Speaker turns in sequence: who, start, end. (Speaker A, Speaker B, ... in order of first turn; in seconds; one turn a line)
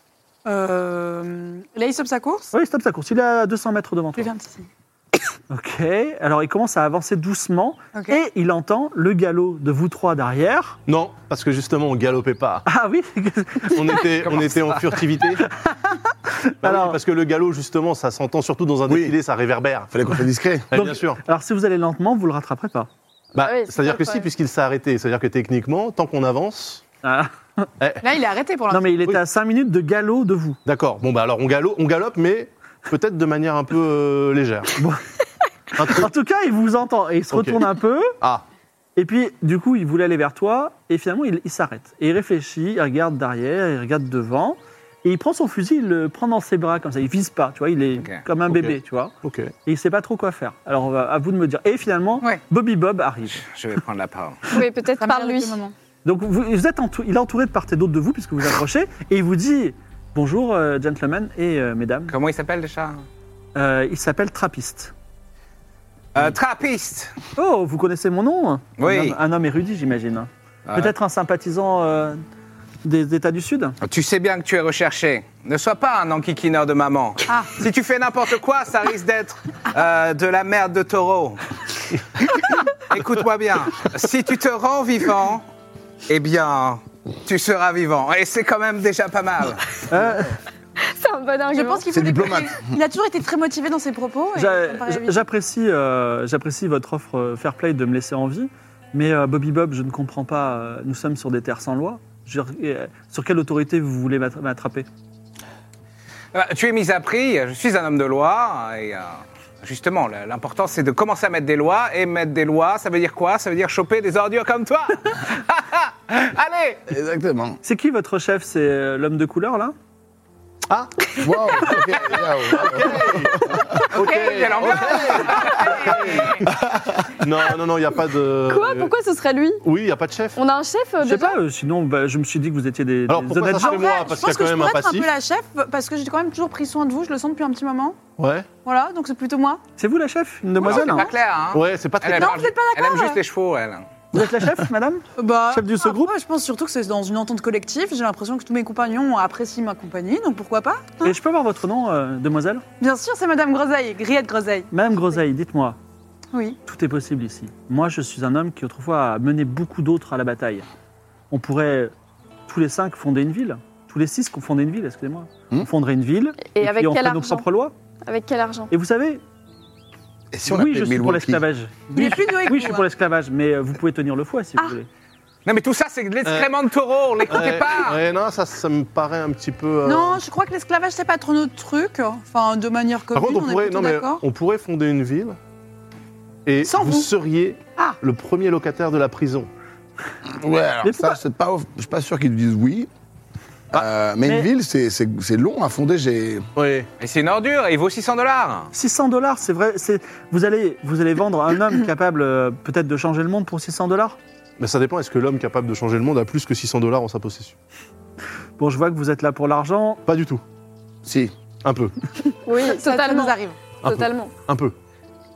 Speaker A: 0.5-2.5
Speaker B: 2.5-4.3
Speaker A: 4.2-4.7
Speaker B: 5.5-10.8
Speaker A: 7.9-8.2
Speaker C: 10.9-12.7
Speaker B: 12.7-14.2
Speaker C: 13.7-15.5
Speaker B: 15.4-17.0
Speaker C: 16.6-19.9
Speaker D: 18.9-19.1
Speaker D: 19.9-20.7
Speaker C: 20.7-21.2
Speaker B: 20.7-22.9
Speaker C: 23.4-26.8
Speaker E: 23.4-24.3
Speaker B: 27.0-27.7
Speaker C: 27.8-28.1
Speaker A: 28.0-28.9
Speaker B: 28.7-30.6
Speaker C: 30.6-34.7
Speaker C: 35.8-36.1
Speaker B: 35.8-38.2
Speaker C: 37.3-37.6
Speaker B: 39.0-49.1
Speaker C: 48.5-49.5
Speaker B: 49.7-53.4
Speaker F: 53.3-54.5
Speaker E: 54.5-55.6
Speaker A: 55.0-55.7
Speaker B: 56.0-62.1
Speaker F: 62.1-63.0
Speaker B: 63.6-64.9
Speaker F: 66.1-67.1
Speaker B: 67.4-72.2
Speaker F: 68.8-69.2
Speaker F: 70.7-70.9
Speaker B: 72.8-73.8
Speaker F: 73.8-81.4
Speaker A: 77.3-77.6
Speaker F: 82.2-85.4
Speaker F: 86.1-89.8
Speaker B: 89.9-90.3
Speaker E: 90.8-92.1
Speaker A: 91.5-95.3
Speaker D: 91.9-92.8
Speaker B: 94.4-104.9
Speaker F: 106.3-116.8
Speaker D: 116.9-117.6
Speaker B: 117.6-119.8
Speaker D: 121.2-123.8
Speaker C: 122.1-128.9
Speaker F: 124.0-126.4
Speaker A: 124.0-125.1
Speaker A: 125.6-126.1
Speaker E: 128.5-129.7
Speaker C: 129.6-130.4
Speaker E: 130.4-131.4
Speaker B: 131.0-133.9
Speaker C: 133.1-135.1
Speaker A: 133.5-138.0
Speaker C: 138.2-138.5
Speaker A: 138.6-139.6
Speaker B: 139.8-141.1
Speaker F: 140.6-143.9
Speaker C: 141.5-142.4
Speaker A: 142.1-143.2
Speaker B: 144.1-146.1
Speaker A: 145.2-151.2
Speaker B: 151.0-152.6
Speaker A: 152.8-154.7
Speaker B: 154.7-155.8
Speaker A: 156.3-156.6
Speaker B: 156.7-160.7
Speaker B: 161.3-161.9
Speaker B: 162.5-167.7
Speaker E: 166.5-167.4
Speaker E: 168.0-168.7
Speaker B: 168.7-169.2
Speaker D: 170.3-171.4
Speaker B: 170.5-174.9
Speaker A: 171.9-172.9
Speaker F: 175.4-178.0
Speaker C: 176.2-176.5
Speaker C: 177.2-180.2
Speaker A: 179.8-184.2
Speaker C: 183.1-185.4
Speaker C: 186.5-189.5
Speaker A: 186.7-187.1
Speaker D: 190.4-192.9
Speaker B: 190.8-191.2
Speaker D: 193.7-196.5
Speaker B: 194.3-194.5
Speaker C: 196.6-196.9
Speaker F: 197.0-198.7
Speaker B: 198.7-204.2
Speaker C: 204.6-207.6
Speaker B: 208.6-210.0
Speaker C: 210.1-210.4
Speaker D: 211.0-211.3
Speaker C: 211.6-211.9
Speaker E: 212.5-214.3
Speaker A: 212.6-213.7
Speaker C: 213.8-214.8